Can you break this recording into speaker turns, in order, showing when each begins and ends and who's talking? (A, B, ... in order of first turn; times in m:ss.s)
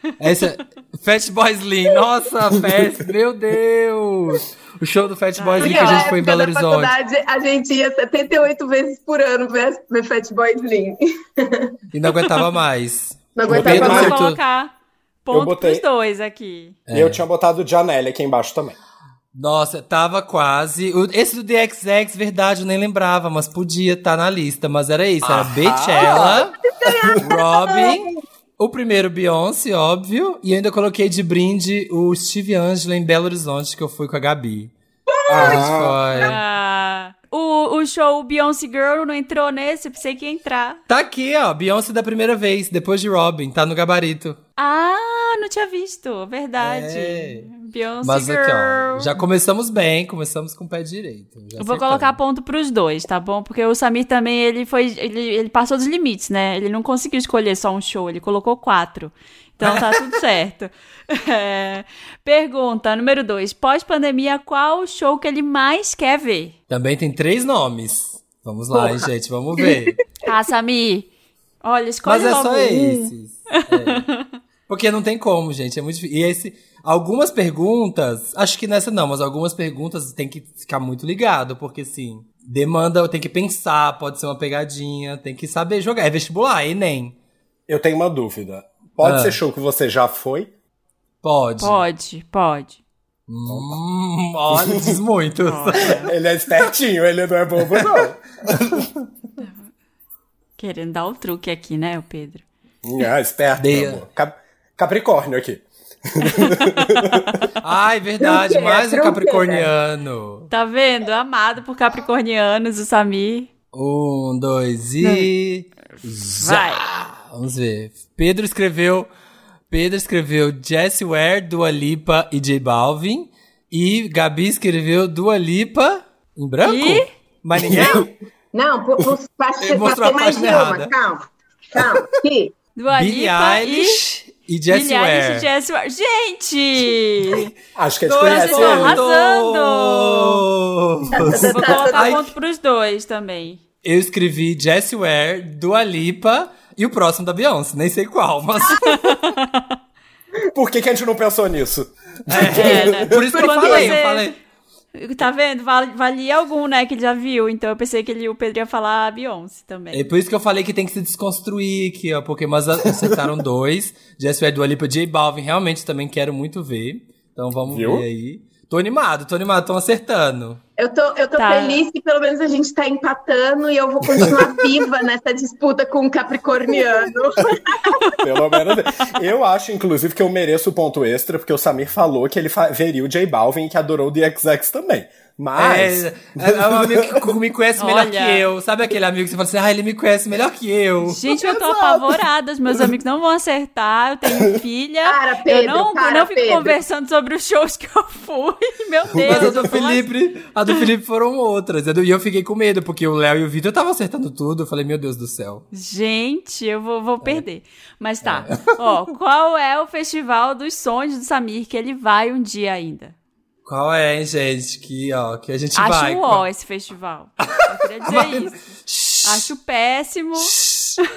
0:00.2-0:06.9 A
0:05.4-0:06.2 B
0:05.6-0:11.7 C
0:11.9-0:14.4 A
0:13.3-0:14.2 C
0:13.5-0:14.2 D
0:13.7-0:14.7 B
0:15.2-0:16.8 B
0:15.3-0:15.8 D
0:16.9-0:17.2 A
0:16.9-0:18.8 D
0:19.3-0:26.6 A
0:25.2-0:27.2 D
0:26.8-0:28.1 C
0:27.2-0:34.7 A
0:35.1-0:35.6 C
0:35.3-0:36.0 D
0:35.3-0:36.4 A
0:36.1-0:40.8 B
0:40.9-0:44.4 A
0:44.6-0:49.1 B
0:46.6-0:47.5 A
0:48.0-0:52.2 A
0:51.6-1:06.5 B
1:06.7-1:10.0 A
1:08.7-1:09.0 C
1:10.2-1:11.1 B
1:11.6-1:14.3 B
1:12.0-1:14.1 A
1:14.7-1:27.1 A
1:27.7-1:30.5 D
1:29.0-1:29.4 A
1:31.2-1:31.8 A
1:31.6-1:32.8 B
1:33.3-1:36.1 A
1:33.5-1:33.8 D
1:34.5-1:35.0 D
1:35.4-1:36.1 B
1:35.8-1:38.9 D
1:37.7-1:38.0 A
1:40.6-1:42.4 B
1:42.8-1:47.4 D
1:43.6-1:44.0 A
1:46.9-1:47.4 B
1:47.6-1:50.5 A
1:48.2-1:49.7 C
1:50.5-1:53.5 B
1:53.7-1:59.1 A
1:55.0-1:55.3 B
1:56.2-1:56.8 B
1:59.7-2:08.1 A
2:06.6-2:07.1 B
2:07.6-2:08.1 D
2:08.5-2:12.5 C
2:09.6-2:10.9 A
2:12.8-2:14.0 B
2:12.9-2:15.5 A
2:14.7-2:17.5 B
2:17.7-2:19.0 D
2:18.0-2:22.3 A
2:18.2-2:20.4 B
2:21.1-2:22.2 C
2:21.5-2:23.6 B
2:23.8-2:29.0 A
2:28.7-2:29.7 B
2:30.5-2:33.1 D
2:32.3-2:34.4 A
2:32.5-2:34.3 B
2:32.6-2:34.0 C
2:34.9-2:40.1 B
2:39.9-2:50.6 A
2:42.8-2:43.2 D
2:47.7-2:48.0 D
2:50.8-2:58.2 C
2:51.4-2:51.8 B
2:58.2-3:07.3 D
3:05.6-3:12.0 A
3:07.8-3:08.5 B
3:11.0-3:20.1 B
3:15.0-3:16.7 C
3:19.1-3:19.4 D
3:19.1-3:25.6 A
3:25.7-3:33.1 B
3:28.2-3:29.0 A
3:33.6-3:36.4 A
3:35.7-3:38.5 B
3:37.4-3:39.5 A
3:39.2-3:40.5 B
3:40.4-3:41.0 A